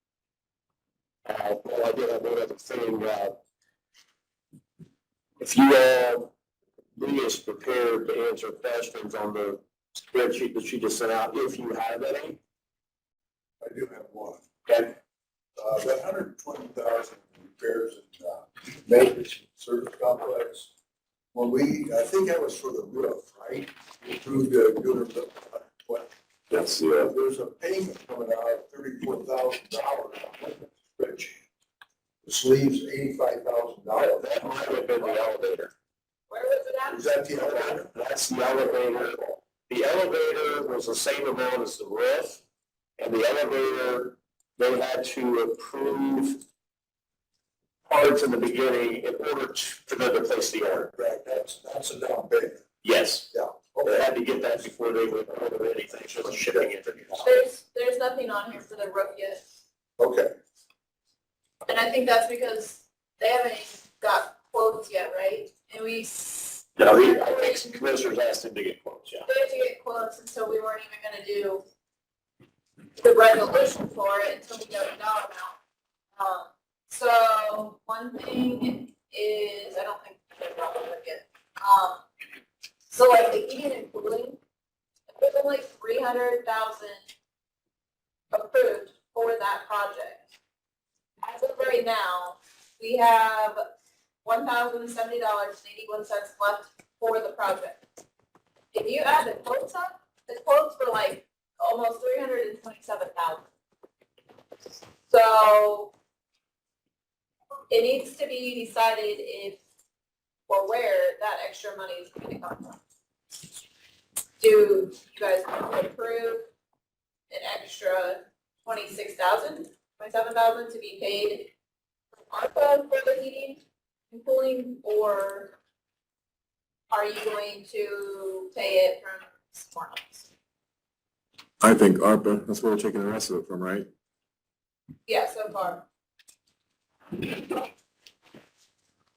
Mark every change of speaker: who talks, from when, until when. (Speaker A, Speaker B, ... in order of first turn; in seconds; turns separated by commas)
Speaker A: 1.2-3.4, Speaker A: 5.4-6.3, Speaker A: 7.0-12.4, Speaker B: 13.6-14.4, Speaker A: 14.7-15.0, Speaker B: 15.6-20.7, Speaker B: 21.3-26.1, Speaker C: 26.5-27.1, Speaker B: 27.0-31.4, Speaker B: 32.2-34.2, Speaker A: 34.0-35.7, Speaker D: 36.3-37.2, Speaker B: 36.9-37.9, Speaker A: 37.4-42.4, Speaker A: 43.0-46.4, Speaker A: 47.9-50.9, Speaker B: 50.9-52.6, Speaker A: 52.8-53.3, Speaker B: 53.3-54.1, Speaker A: 53.8-57.3, Speaker D: 57.2-59.4, Speaker B: 60.0-60.3, Speaker D: 61.7-67.7, Speaker A: 66.8-69.3, Speaker D: 69.2-71.7, Speaker D: 73.0-75.6, Speaker D: 76.2-82.0, Speaker D: 82.9-84.4, Speaker D: 85.1-87.1, Speaker D: 88.3-90.3, Speaker D: 91.2-93.7, Speaker D: 94.2-97.8, Speaker D: 98.7-103.5, Speaker D: 105.1-105.9, Speaker D: 107.7-109.6, Speaker D: 110.5-112.8, Speaker D: 114.4-116.5, Speaker D: 117.3-121.5, Speaker D: 122.2-125.6, Speaker D: 126.9-130.3, Speaker C: 131.6-133.9, Speaker D: 135.1-135.9, Speaker D: 137.2-137.7